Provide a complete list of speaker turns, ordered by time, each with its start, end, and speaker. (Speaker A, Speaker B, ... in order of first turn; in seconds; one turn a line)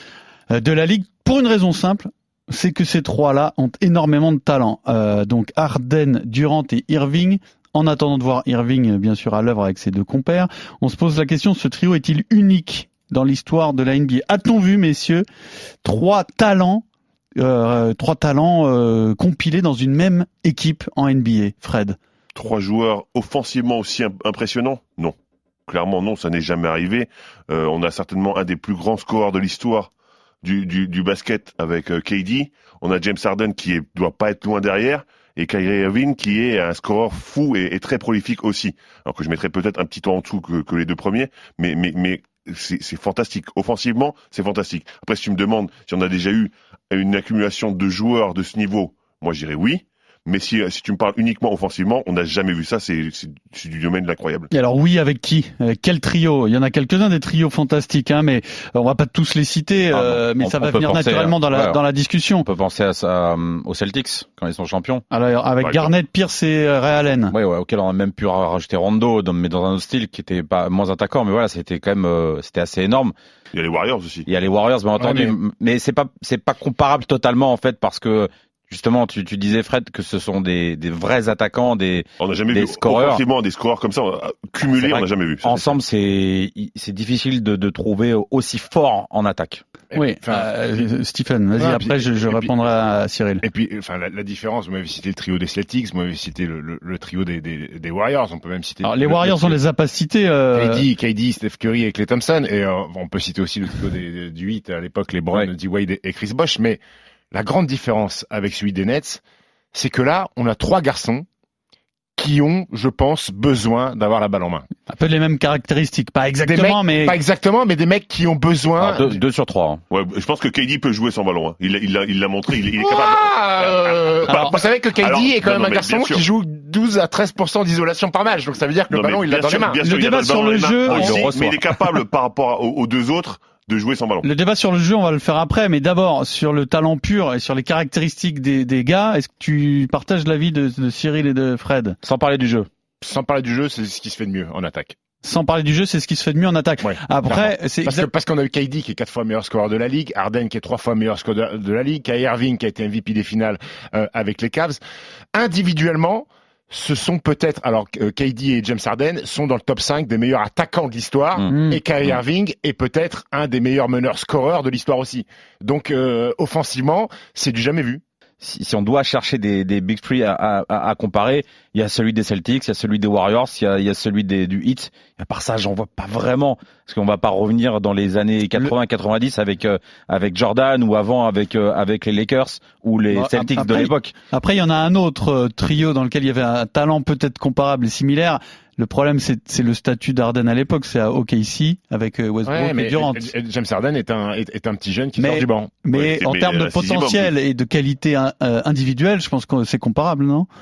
Speaker A: 0.5-15.2
Speaker A: 15.8-16.8
Speaker A: 17.4-22.0
Speaker B: 22.3-25.2
Speaker B: 25.7-29.9
Speaker B: 30.4-54.5
Speaker A: 54.5-62.5
Speaker C: 59.9-61.8
Speaker C: 62.4-65.0
Speaker A: 65.1-67.3
Speaker B: 65.6-65.9
Speaker C: 67.3-73.1
Speaker B: 73.5-74.3
Speaker C: 74.3-83.2
Speaker D: 75.0-75.3
Speaker B: 82.2-85.7
Speaker C: 84.8-89.6
Speaker D: 89.9-90.8
Speaker A: 89.9-93.4
Speaker D: 91.6-92.5
Speaker D: 93.4-99.6
Speaker A: 98.8-100.9
Speaker D: 100.5-106.8
Speaker D: 107.3-109.2
Speaker D: 109.7-111.3
Speaker D: 112.2-114.7
Speaker A: 114.9-117.2
Speaker D: 116.4-119.2
Speaker C: 118.8-119.8
Speaker B: 119.9-126.2
Speaker D: 122.8-129.8
Speaker B: 128.9-134.3
Speaker A: 129.8-131.3
Speaker C: 130.8-131.6
Speaker A: 134.2-142.0
Speaker C: 142.0-142.7
Speaker D: 143.0-145.0
Speaker A: 145.2-148.1
Speaker D: 146.8-154.8
Speaker D: 155.3-168.0
Speaker A: 161.5-161.8
Speaker C: 168.4-184.1
Speaker A: 183.1-193.3
Speaker D: 192.5-195.7
Speaker A: 195.2-200.5
Speaker B: 195.9-197.3